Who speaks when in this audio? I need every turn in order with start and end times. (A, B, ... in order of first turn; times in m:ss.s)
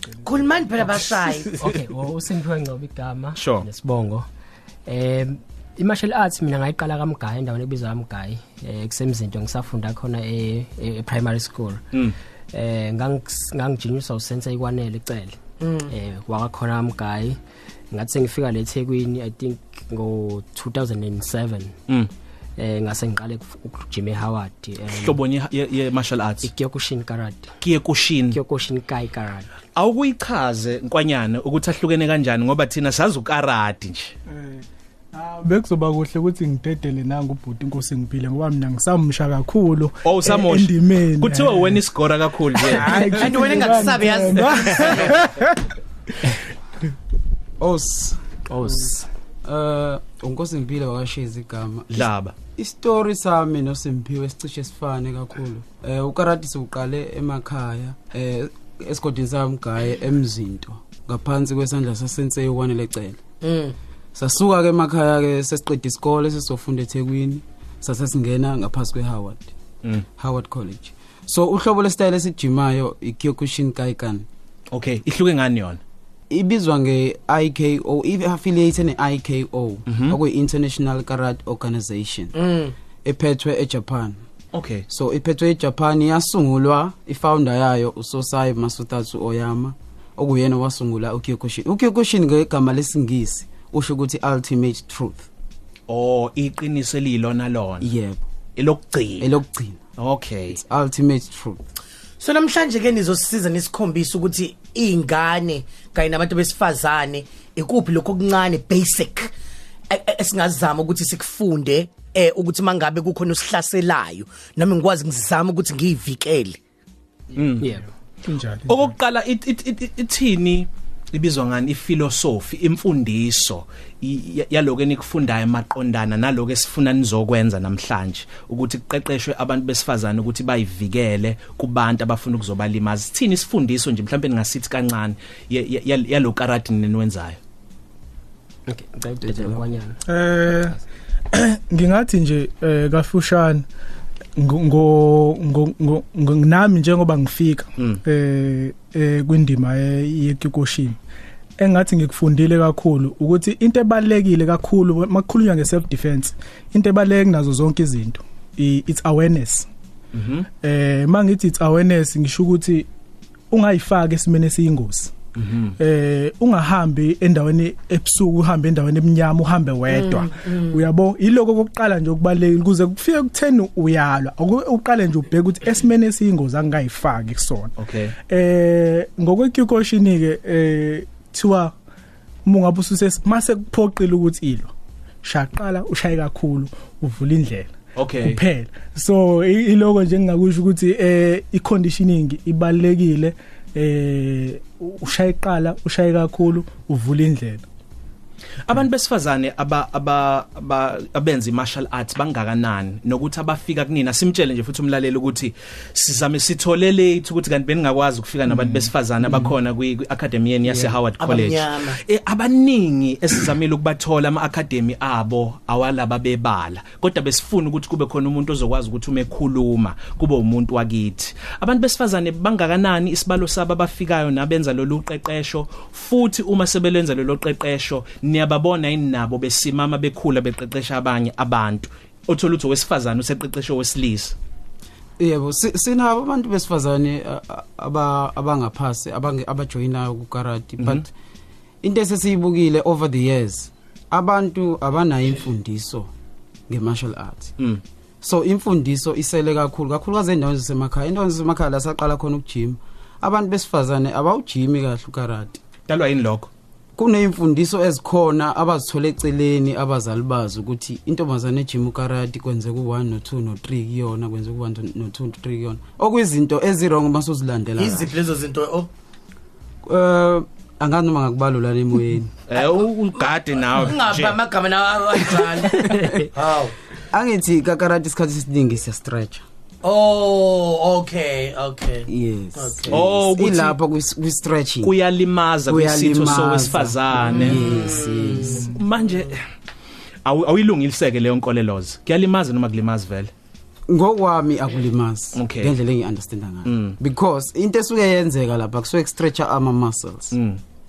0:00.2-0:01.6 A
0:00.4-0:00.7 B
0:01.6-0:04.2 C
0:03.4-0:03.6 D
0:04.9-0:11.8 C
0:12.5-0:15.4 C
0:15.6-0:15.9 A
0:15.9-0:17.4 C
0:17.9-0:21.7 C
0:22.6-0:25.2 C
0:24.9-0:26.5 D
0:26.4-0:27.5 C
0:27.6-0:28.4 D
0:28.3-0:29.5 C
0:29.7-0:34.1 D
0:34.3-0:41.8 B
0:40.0-0:43.4 D
0:42.6-0:45.6 B
0:43.0-0:45.2 A
0:44.6-0:45.1 D
0:47.6-0:48.2 E
0:48.5-0:49.1 C
0:49.4-1:03.2 E
0:51.9-0:52.3 D
1:03.4-1:03.7 A
1:04.1-1:09.5 E
1:10.2-1:14.3 E
1:14.7-1:15.8 D
1:16.3-1:22.4 E
1:19.9-1:20.2 D
1:22.4-1:22.7 A
1:23.0-1:24.2 E
1:24.5-1:24.8 D
1:24.9-1:35.3 E
1:35.9-1:37.9 D
1:37.8-1:38.2 E
1:38.6-1:39.3 D
1:39.2-1:39.8 E
1:40.0-1:40.6 D
1:40.5-1:41.6 E
1:42.2-1:49.3 A
1:49.9-1:56.6 A
1:57.3-1:57.8 D
1:57.6-1:57.9 C
1:58.2-1:59.0 B
1:58.7-2:17.4 D
2:18.7-2:20.0 C
2:19.2-2:19.6 E
2:20.1-2:20.8 B
2:21.3-2:23.6 B
2:24.4-2:31.0 B
2:31.6-2:39.7 B
2:40.1-2:40.5 D
2:40.6-2:42.9 B
2:43.5-2:45.1 B
2:45.4-2:45.7 D
2:45.8-3:01.7 B
2:49.9-2:50.8 A
2:57.8-2:58.1 D
3:02.4-3:04.7 B
3:05.2-3:17.7 B
3:08.0-3:08.4 D
3:18.6-3:54.4 D
3:30.7-3:32.0 A
3:55.2-4:01.1 E
4:00.8-4:01.0 D
4:01.8-4:06.1 E
4:06.7-4:07.5 E
4:08.2-4:15.6 E
4:15.9-4:16.5 D
4:17.0-4:28.1 E
4:27.8-4:28.9 A
4:29.8-4:32.3 E
4:32.5-4:34.4 D
4:32.6-4:36.7 A
4:35.9-4:36.2 C
4:37.1-4:39.4 E
4:39.8-4:43.0 A
4:42.1-4:45.0 E
4:42.9-4:43.8 D
4:44.8-4:47.6 D
4:45.7-4:48.8 E
4:47.4-4:48.6 A
4:48.4-4:49.4 D
4:50.2-4:53.3 D
4:53.9-5:00.4 E
4:55.3-4:55.7 D
4:56.6-4:57.0 D
5:00.3-5:00.6 D